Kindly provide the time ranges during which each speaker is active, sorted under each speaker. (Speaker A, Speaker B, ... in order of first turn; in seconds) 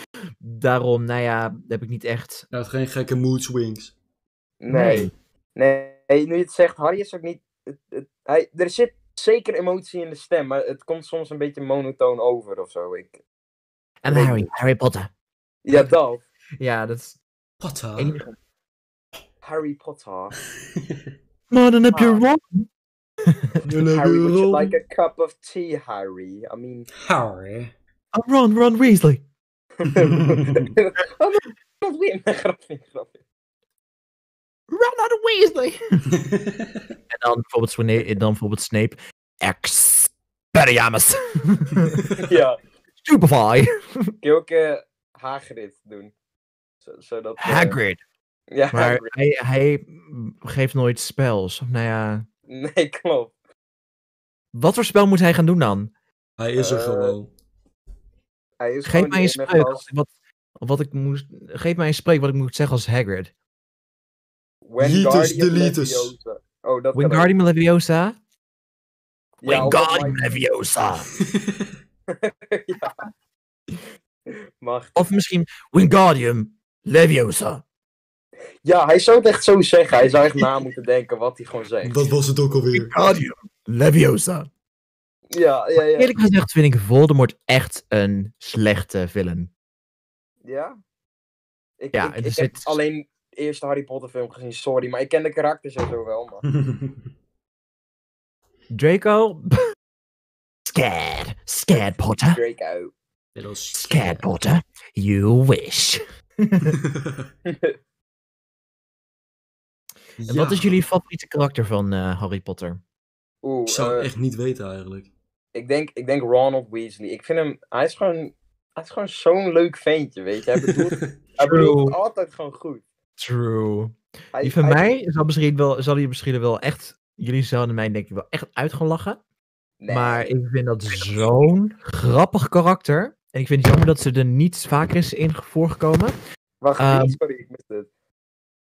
Speaker A: 0.4-2.5, 4.7-5.1, 14.0-15.1, 16.6-17.2, 17.9-18.4, 21.5-22.7, 23.2-23.6, 28.1-29.2, 34.7-36.1, 37.1-42.1, 43.0-44.1, 47.4-48.0, 48.7-52.2, 54.5-55.9, 58.8-63.3, 66.9-68.2, 69.4-71.1, 74.9-77.6, 82.7-84.5, 85.8-89.5, 91.9-92.8, 98.7-99.6, 100.7-102.4, 103.7-106.8, 110.3-112.8, 121.4-122.0, 123.2-129.2, 129.9-136.2, 136.8-137.2
Speaker B: 2.5-3.9, 17.6-18.1, 23.6-24.7, 27.0-27.7, 29.9-30.7, 36.1-36.8, 56.4-57.3, 64.8-66.1, 81.8-82.9, 96.6-96.9, 103.3-104.2, 106.7-107.2, 110.2-110.8, 113.7-115.1, 120.6-121.1
Speaker C: 4.6-13.2, 14.1-14.5, 15.6-16.2, 19.4-20.3, 21.9-22.2, 23.9-26.9, 29.8-33.2, 42.1-42.5, 44.2-46.1, 46.8-47.8, 48.5-49.1, 52.5-53.3, 56.6-57.2, 58.6-59.8, 64.6-67.3, 69.4-70.2, 72.1-73.0, 74.6-74.9, 78.6-82.0, 85.3-86.1, 90.5-90.8, 91.8-96.4, 101.7-102.9, 107.5-107.8, 113.4-114.0, 115.5-122.8, 124.3-124.8, 129.8-130.3, 136.6-137.9